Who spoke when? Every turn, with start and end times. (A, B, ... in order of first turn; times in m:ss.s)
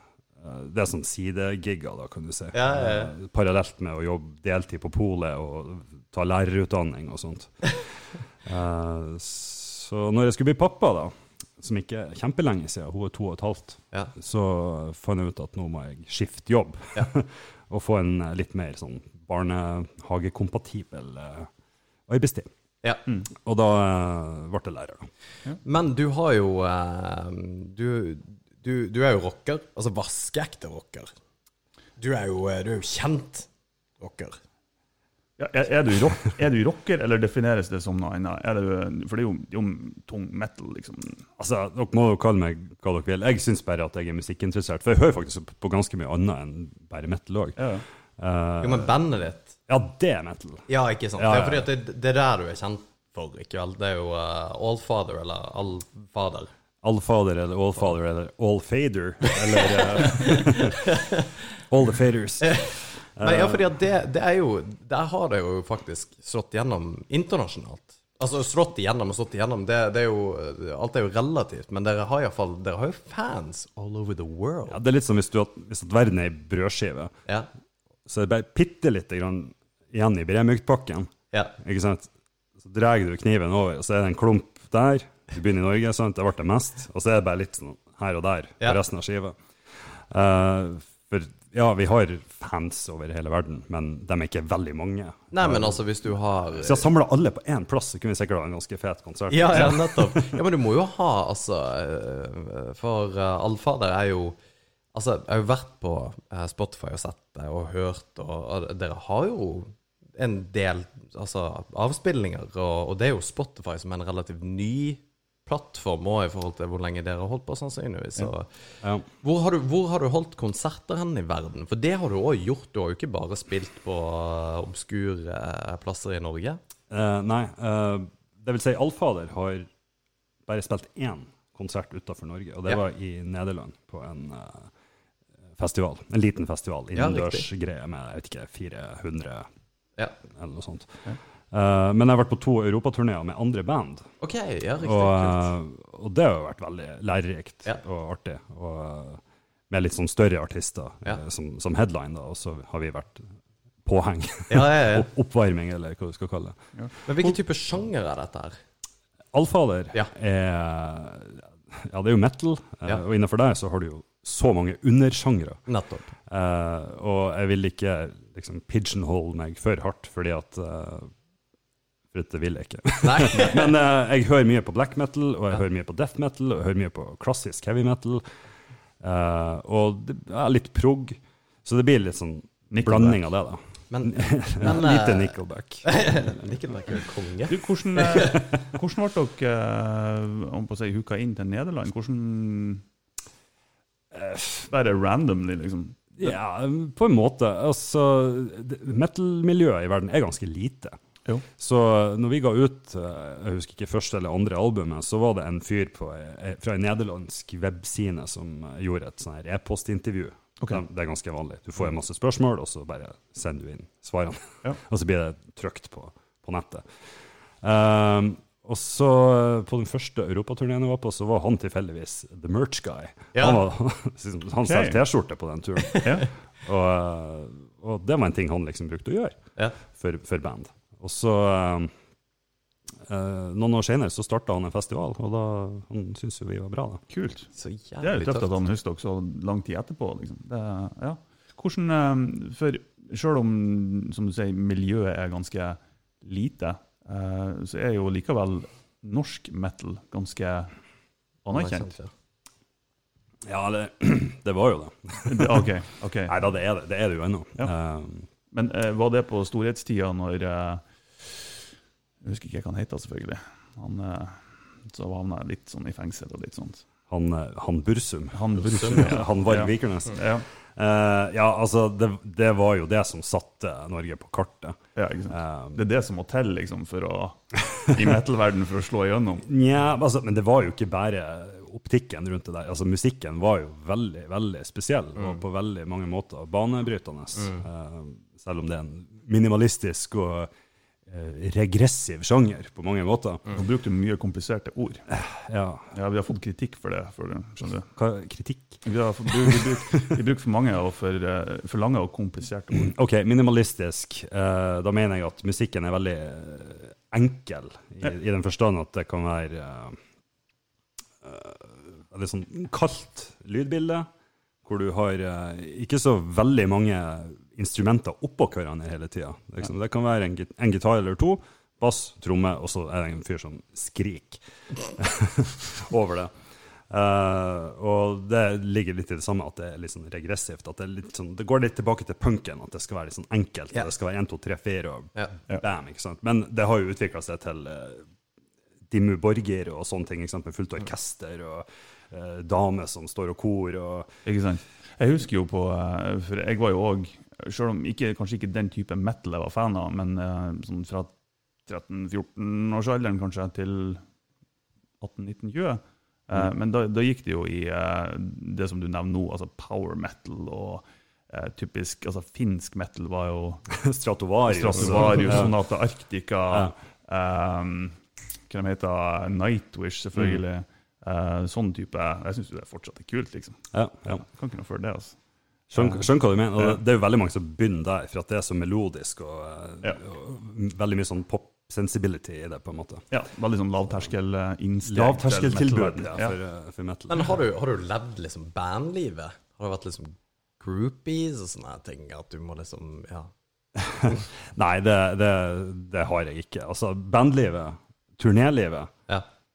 0:00.4-0:21.5 A
0:02.5-0:03.1 B
0:22.1-0:22.5 A
0:23.4-0:25.1 A
0:25.6-0:31.1 B
0:32.0-0:33.5 B
0:34.0-0:34.4 B
0:35.4-0:41.2 C
0:41.4-0:48.9 A
0:47.6-0:47.8 C
0:48.6-0:49.6 B
0:49.7-0:51.7 A
0:50.7-0:56.5 B
0:56.8-1:01.0 A
0:59.5-1:01.3 B
1:01.6-1:03.7 A
1:02.4-1:14.8 B
1:14.7-1:17.2 A
1:18.1-1:35.8 A
1:35.3-1:36.9 B
1:36.6-1:40.4 A
1:39.3-1:44.4 B
1:44.9-2:06.6 B
2:06.9-2:09.7 A
2:10.5-2:14.7 A
2:15.6-2:19.5 A
2:17.0-2:17.5 B
2:20.3-2:24.1 A
2:24.2-2:25.5 B
2:24.8-2:33.3 A
2:33.8-2:36.6 A
2:34.5-2:35.1 B
2:37.1-2:38.6 B
2:39.3-2:45.7 A
2:45.7-2:46.1 B
2:46.3-2:51.1 A
2:52.1-2:58.4 A
2:53.0-2:53.7 B
2:59.0-3:06.6 A
3:02.7-3:03.2 C
3:03.9-3:08.4 B
3:07.5-3:12.8 C
3:14.1-3:14.7 A
3:14.7-3:16.4 C
3:16.2-3:21.0 A
3:21.6-3:51.9 A
3:43.3-3:43.6 B
3:44.6-3:45.0 C
3:45.8-3:46.2 B
3:53.1-3:57.0 A
3:57.1-3:57.5 C
3:57.6-3:58.6 B
3:58.0-4:10.7 C
4:11.4-4:12.0 C
4:11.5-4:12.1 B
4:13.5-4:15.7 A
4:15.3-4:16.4 C
4:16.3-4:18.3 A
4:18.5-4:21.7 C
4:22.2-4:26.9 C
4:27.1-4:35.8 A
4:28.3-4:30.4 C
4:28.7-4:29.2 B
4:35.0-4:39.5 C
4:37.7-4:38.1 A
4:39.5-4:50.5 A
4:45.2-4:45.4 B
4:47.4-4:47.6 B
4:51.1-4:53.5 A
4:53.5-4:55.1 C
4:55.1-4:55.9 A
4:55.9-4:57.9 C
4:58.0-5:00.2 A
4:58.8-5:02.9 C
5:02.7-5:10.0 A
5:11.2-5:14.1 A
5:14.6-5:26.3 A
5:26.9-5:38.1 A
5:38.9-5:44.1 A
5:44.3-5:51.1 C
5:51.7-5:54.0 C
5:55.0-6:03.6 C
6:03.7-6:05.6 A
6:04.5-6:15.2 C
6:13.7-6:14.2 A
6:15.7-6:23.1 A
6:15.8-6:16.0 C
6:23.1-6:26.4 C
6:24.9-6:27.3 A
6:27.1-6:33.3 B
6:33.9-6:38.9 A